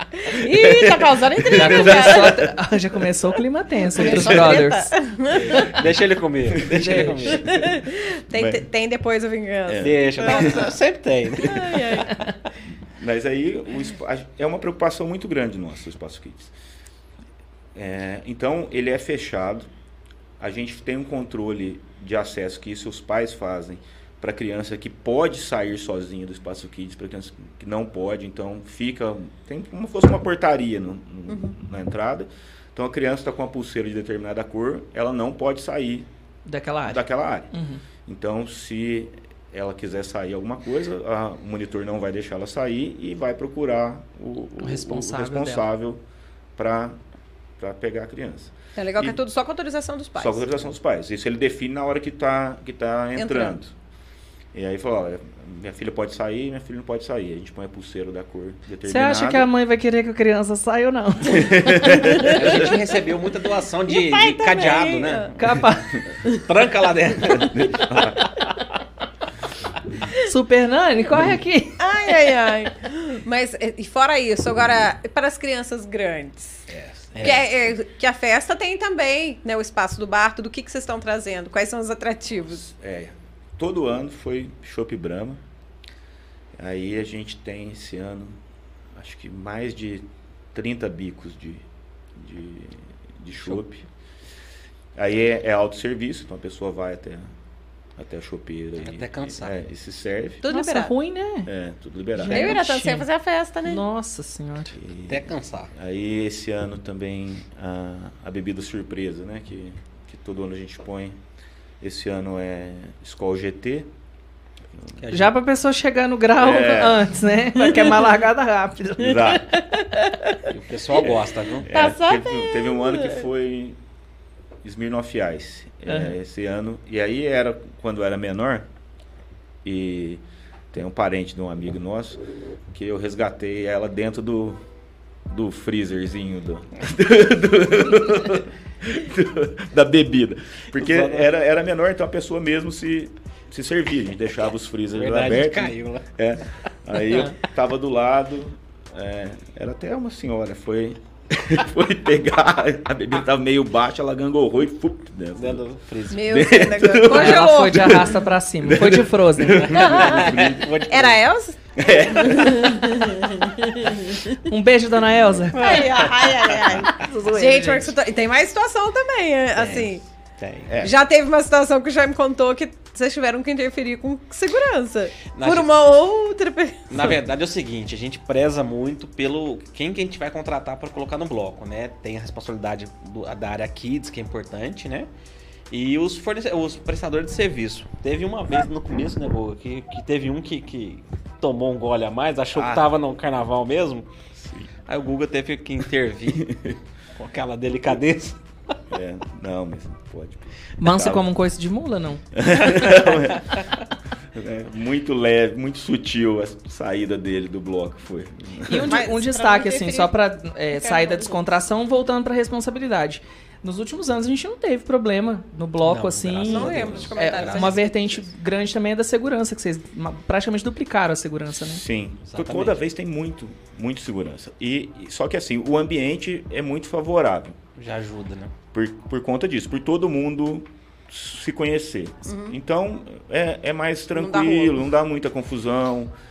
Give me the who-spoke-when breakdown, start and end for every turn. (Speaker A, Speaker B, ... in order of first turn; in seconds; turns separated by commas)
Speaker A: 0.2-2.4, Speaker B: 0.3-2.5, Speaker C: 1.5-4.9, Speaker A: 3.9-5.7, Speaker B: 4.0-4.5, Speaker D: 4.1-4.6, Speaker D: 5.3-7.6, Speaker B: 6.5-8.7, Speaker C: 6.7-7.3, Speaker A: 7.3-10.8, Speaker B: 9.7-10.8, Speaker D: 9.8-11.8, Speaker A: 11.3-12.2, Speaker B: 11.4-11.8, Speaker C: 12.0-12.3, Speaker B: 12.9-16.5, Speaker B: 17.8-19.7, Speaker B: 20.4-36.1, Speaker A: 31.3-31.6, Speaker C: 36.5-37.8, Speaker B: 36.9-37.5, Speaker B: 38.1-46.0, Speaker C: 44.6-45.6, Speaker B: 46.6-47.0, Speaker B: 47.6-49.2, Speaker A: 48.8-50.5, Speaker B: 50.2-53.7, Speaker A: 53.1-53.6, Speaker B: 54.5-59.5, Speaker C: 58.9-62.2, Speaker B: 61.3-62.7, Speaker A: 62.0-62.8, Speaker D: 62.2-65.7, Speaker A: 63.9-65.3, Speaker C: 65.4-66.0, Speaker D: 66.3-68.1, Speaker B: 67.3-68.3, Speaker C: 70.2-71.9, Speaker A: 71.8-76.6, Speaker B: 76.7-77.6, Speaker D: 77.1-77.5, Speaker A: 77.2-82.6, Speaker B: 82.6-85.4, Speaker B: 86.6-88.4, Speaker B: 89.0-91.6, Speaker B: 92.2-93.9, Speaker B: 95.0-97.3, Speaker B: 98.0-100.4, Speaker D: 98.8-99.5, Speaker A: 100.4-100.9, Speaker C: 100.5-101.5, Speaker B: 101.5-102.7, Speaker C: 102.2-103.1, Speaker A: 102.3-103.8, Speaker C: 103.7-104.8, Speaker B: 104.7-111.2, Speaker D: 105.1-105.7, Speaker B: 111.8-113.9, Speaker B: 114.7-115.0, Speaker D: 115.0-115.3, Speaker C: 115.1-119.4, Speaker B: 116.4-117.1, Speaker B: 119.0-119.5, Speaker A: 119.5-120.5, Speaker D: 120.5-121.7, Speaker B: 121.0-123.8, Speaker A: 121.7-123.2, Speaker B: 124.6-128.7, Speaker B: 129.6-134.6, Speaker B: 135.3-160.7, Speaker D: 140.7-141.3, Speaker D: 144.9-146.1, Speaker D: 155.4-156.3, Speaker A: 156.1-158.1, Speaker C: 157.1-159.9, Speaker D: 159.7-161.2, Speaker A: 159.7-164.4, Speaker B: 161.8-163.4, Speaker C: 164.4-165.9, Speaker D: 165.6-166.9, Speaker A: 165.6-170.0, Speaker C: 166.8-167.9, Speaker D: 169.6-170.7, Speaker B: 170.7-171.0, Speaker A: 170.8-177.2, Speaker D: 175.3-175.9, Speaker D: 176.9-185.1, Speaker D: 185.7-194.1, Speaker B: 192.6-192.9, Speaker B: 194.3-194.7, Speaker D: 194.9-196.6, Speaker B: 196.3-196.8, Speaker D: 197.2-198.8, Speaker B: 198.9-201.3, Speaker C: 200.8-202.2, Speaker B: 202.3-203.6, Speaker B: 204.3-209.0, Speaker C: 208.7-221.8, Speaker A: 208.8-210.1, Speaker A: 210.7-211.5, Speaker D: 215.8-217.8, Speaker A: 216.5-218.3, Speaker B: 216.8-217.1, Speaker B: 221.7-227.6, Speaker D: 222.3-222.8, Speaker D: 227.8-228.5, Speaker B: 228.7-236.1, Speaker A: 232.3-232.6, Speaker A: 234.1-234.8